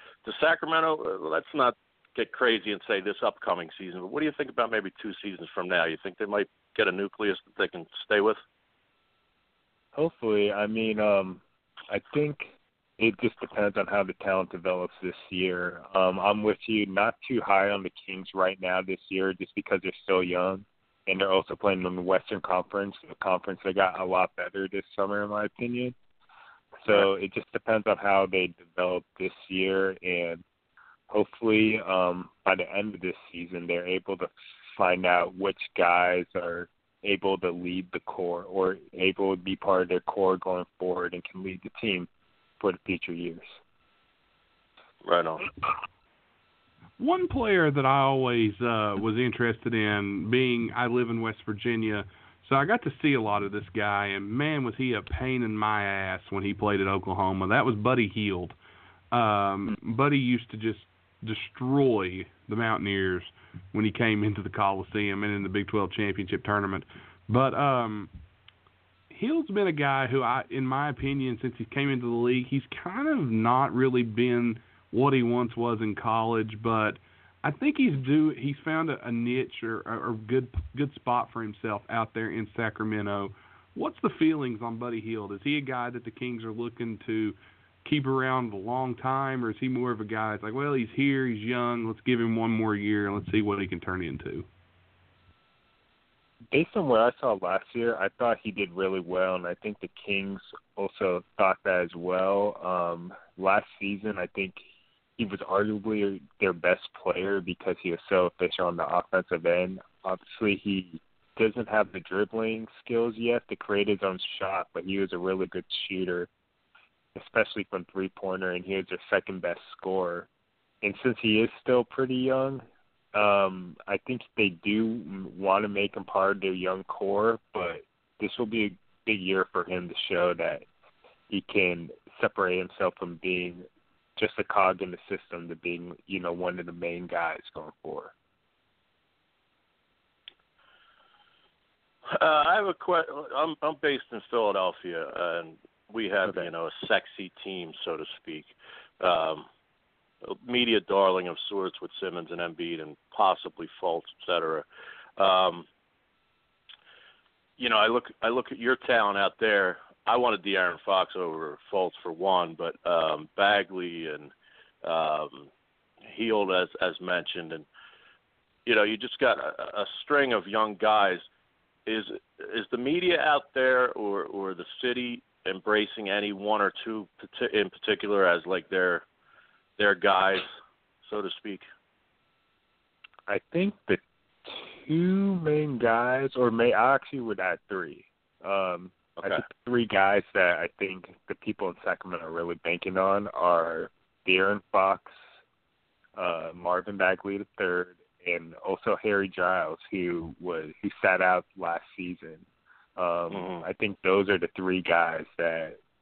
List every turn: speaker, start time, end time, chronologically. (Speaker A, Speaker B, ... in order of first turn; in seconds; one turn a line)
Speaker A: 0.2-8.4
Speaker B: 9.9-25.9
Speaker B: 26.8-30.4
Speaker B: 31.1-42.1
Speaker B: 42.6-43.5
Speaker A: 45.0-45.5
Speaker C: 47.0-58.5
Speaker C: 59.1-68.1
Speaker C: 69.1-94.5
Speaker B: 96.5-104.6
Speaker B: 105.2-116.3
Speaker B: 117.1-120.3
Speaker B: 120.8-130.7
Speaker B: 131.3-138.1
Speaker A: 142.1-149.4
Speaker A: 150.2-154.7
Speaker A: 155.2-155.7
Speaker A: 157.6-164.3
Speaker A: 164.8-165.5
Speaker A: 166.1-167.7
Speaker A: 168.7-171.2
Speaker A: 171.8-179.0
Speaker A: 179.8-180.5
Speaker A: 181.0-181.7
Speaker B: 183.3-195.2
Speaker B: 196.2-202.4
Speaker B: 203.0-205.8
Speaker A: 203.3-203.6